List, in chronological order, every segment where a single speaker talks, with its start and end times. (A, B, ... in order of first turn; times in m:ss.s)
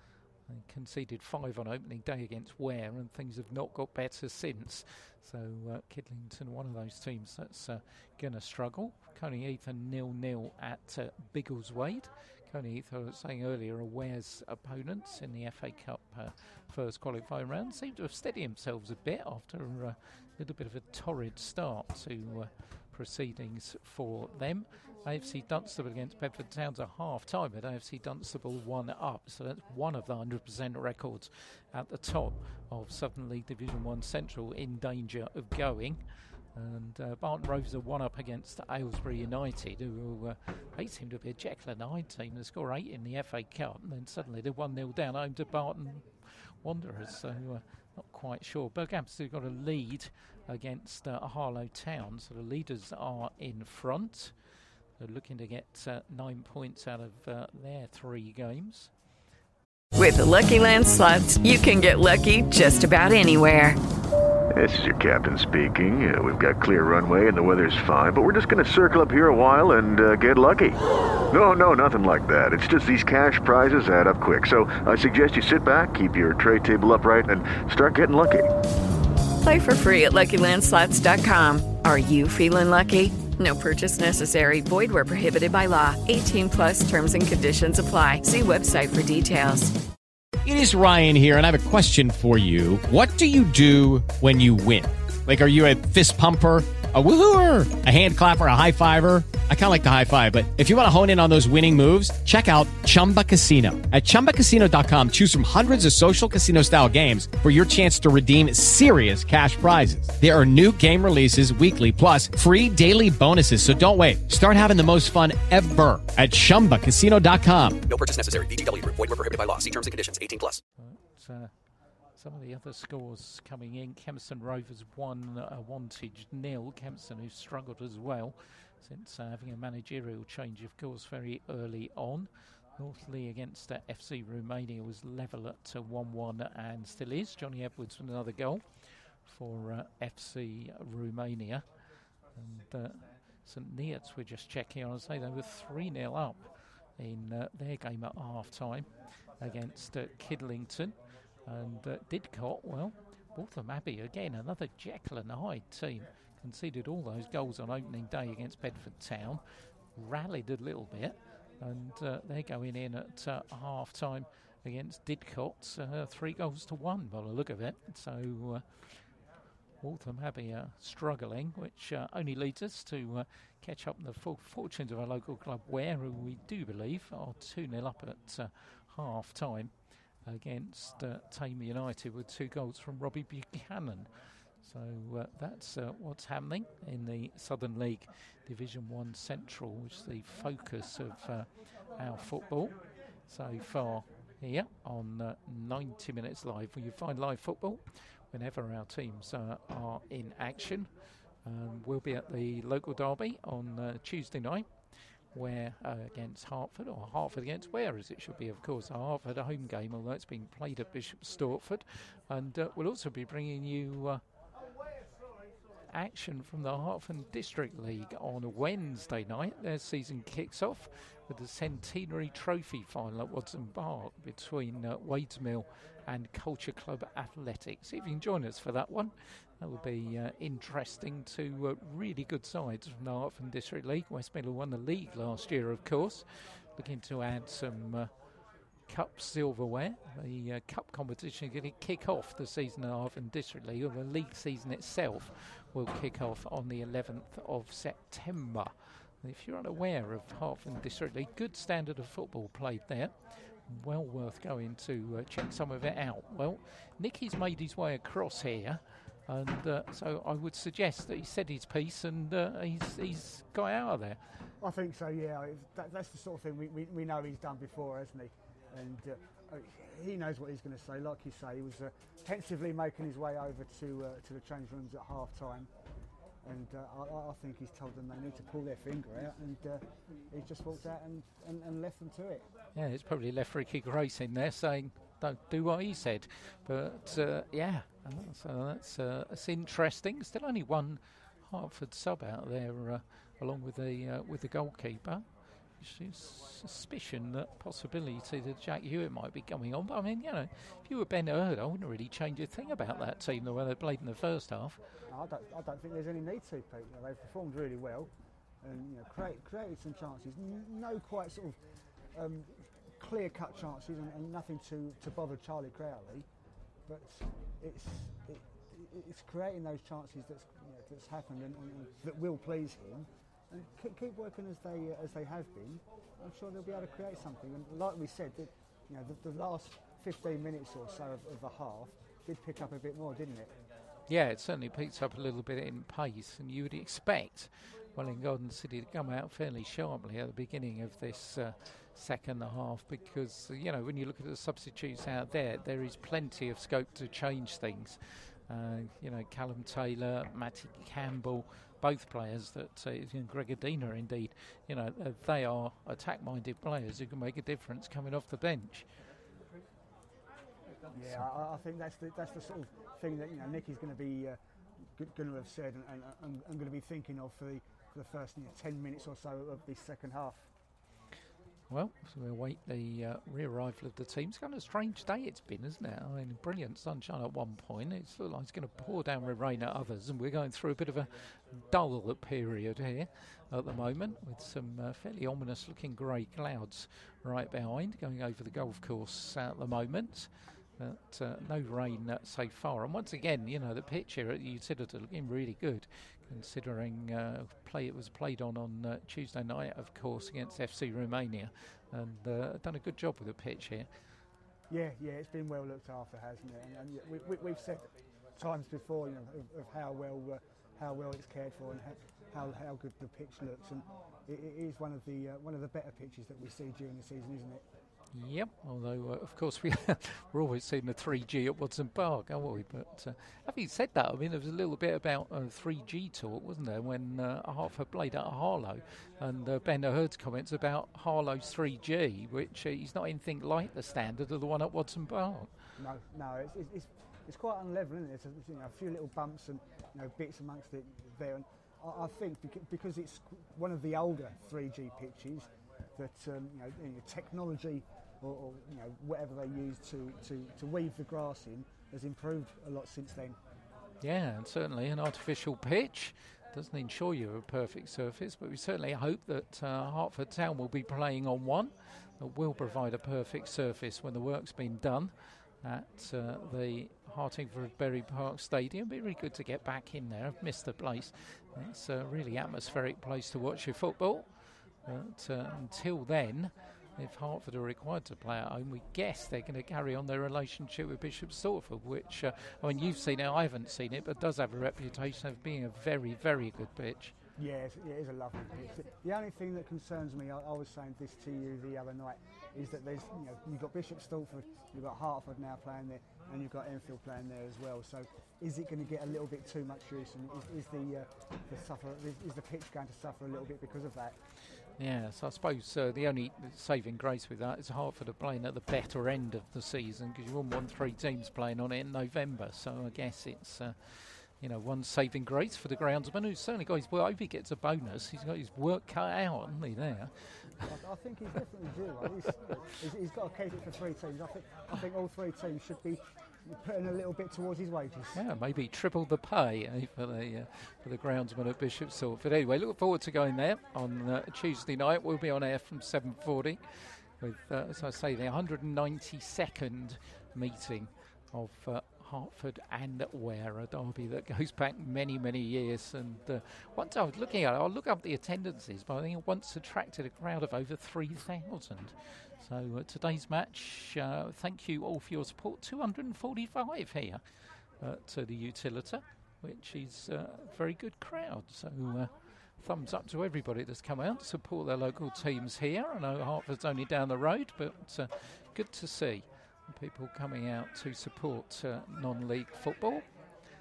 0:00.5-0:36.0 A
0:36.5-0:54.3 A
0:55.0-0:58.9 A
0:59.9-1:03.8 B
1:04.5-1:18.5 C
1:19.4-1:29.8 B
1:30.4-1:57.8 D
1:57.9-2:00.6 E
2:00.8-2:01.5 A
2:02.2-2:18.6 A
2:19.2-2:21.6 A
2:22.3-2:39.4 A
2:39.9-2:48.7 A
2:49.8-2:59.7 A
3:00.2-3:04.1 A
3:04.6-3:12.8 A
3:13.3-3:20.9 A
3:21.4-3:24.7 A
3:25.3-3:34.2 A
3:35.9-3:58.1 A
3:58.9-4:24.3 A
4:24.6-4:35.7 F
4:36.4-4:42.5 F
4:42.7-4:55.2 A
4:55.8-5:04.8 A
5:05.1-5:11.6 F
5:12.1-5:16.3 F
5:16.8-5:33.5 F
5:34.1-5:58.9 A
6:00.9-6:10.5 F
6:11.7-6:43.9 A
6:44.7-6:57.6 F
6:58.1-7:15.5 A
7:15.8-7:33.4 F
7:34.0-7:54.3 A
7:54.8-8:07.1 A
8:07.4-8:24.2 F
8:24.8-8:40.7 A
8:40.6-8:48.2 F
8:48.1-9:17.2 A
9:17.8-9:33.1 A